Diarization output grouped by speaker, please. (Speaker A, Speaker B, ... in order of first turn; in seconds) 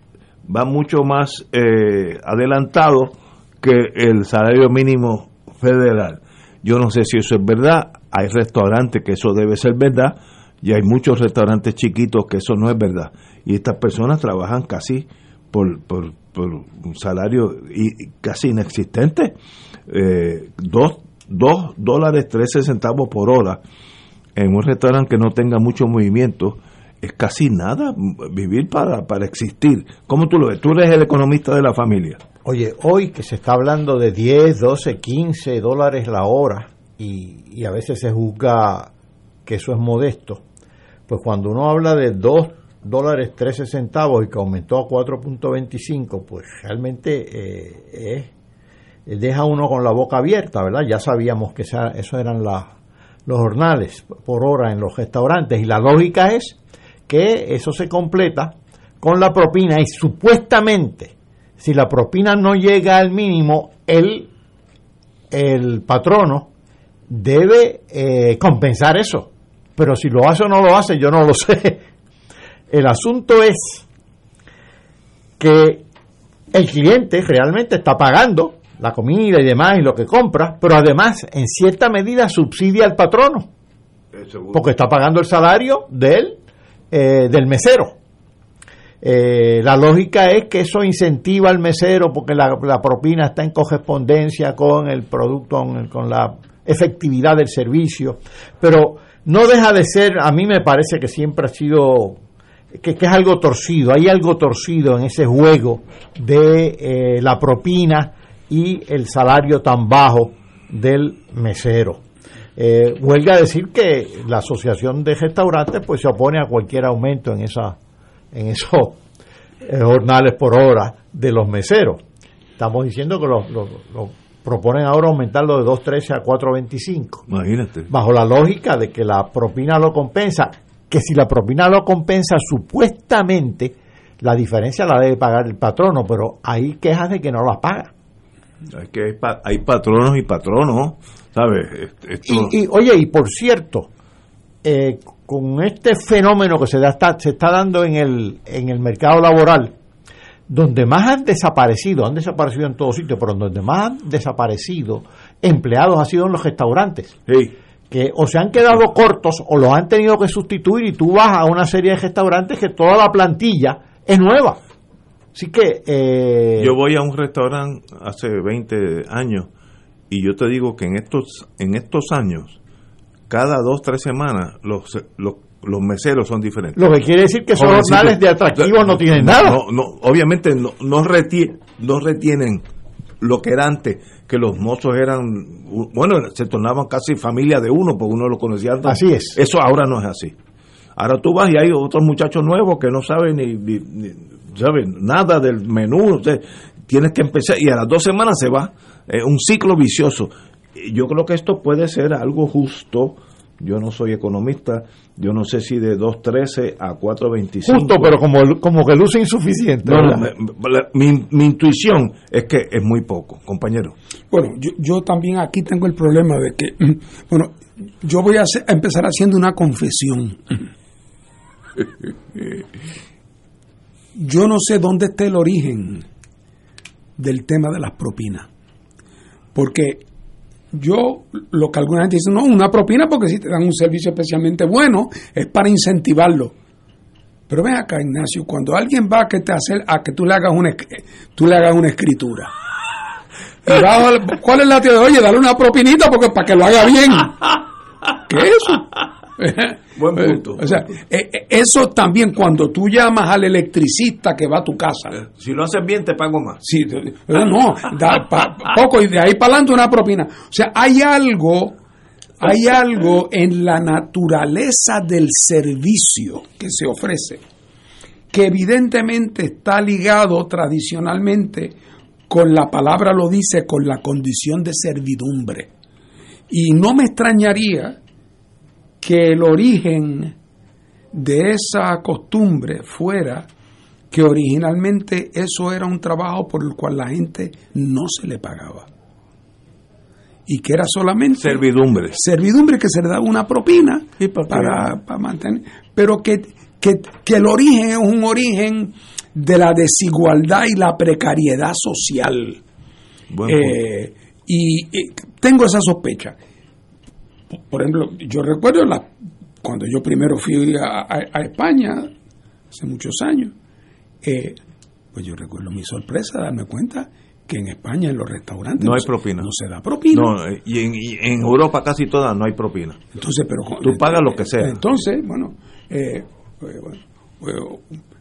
Speaker A: 0.5-19.3, 19.9-23.6, 24.3-32.2, 84.1-84.6, 127.3-127.9, 138.7-142.5, 157.3-157.5, 166.6-169.5, 170.1-172.6, 173.3-176.9, 177.5-182.6, 183.2-190.3, 190.9-208.1, 209.8-213.9, 249.9-250.8, 255.2-256.6, 291.4-292.2, 294.2-294.9, 303.3-303.8, 318.8-319.5, 320.1-323.0, 323.8-324.8
Speaker B: 32.4-38.9, 39.5-40.4, 41.1-48.3, 49.0-52.7, 53.2-56.6, 57.1-64.3, 65.3-66.5, 67.1-71.8, 72.7-73.8, 75.4-75.8, 76.5-83.5, 84.5-86.4, 86.9-88.0, 89.0-102.2, 102.7-112.0, 112.5-117.8, 118.3-119.0, 119.6-122.0, 122.6-127.2, 127.9-137.9, 142.2-143.9, 144.6-149.7, 150.5-157.2, 157.9-164.6, 165.3-166.8, 176.8-179.6, 188.8-189.4, 207.6-210.3
Speaker C: 214.3-220.7, 224.2-226.0, 227.2-228.5, 229.5-230.0, 230.7-236.5, 237.5-242.5, 243.6-247.6, 248.2-255.2, 256.6-261.8, 262.4-267.4, 268.3-271.7, 272.3-275.7, 276.5-278.0, 279.0-280.3, 281.1-283.5, 284.1-288.9, 290.5-302.6, 303.4-306.4, 307.7-309.1, 309.6-312.1, 312.7-313.5, 314.2-314.6, 315.1-320.3, 323.1-327.8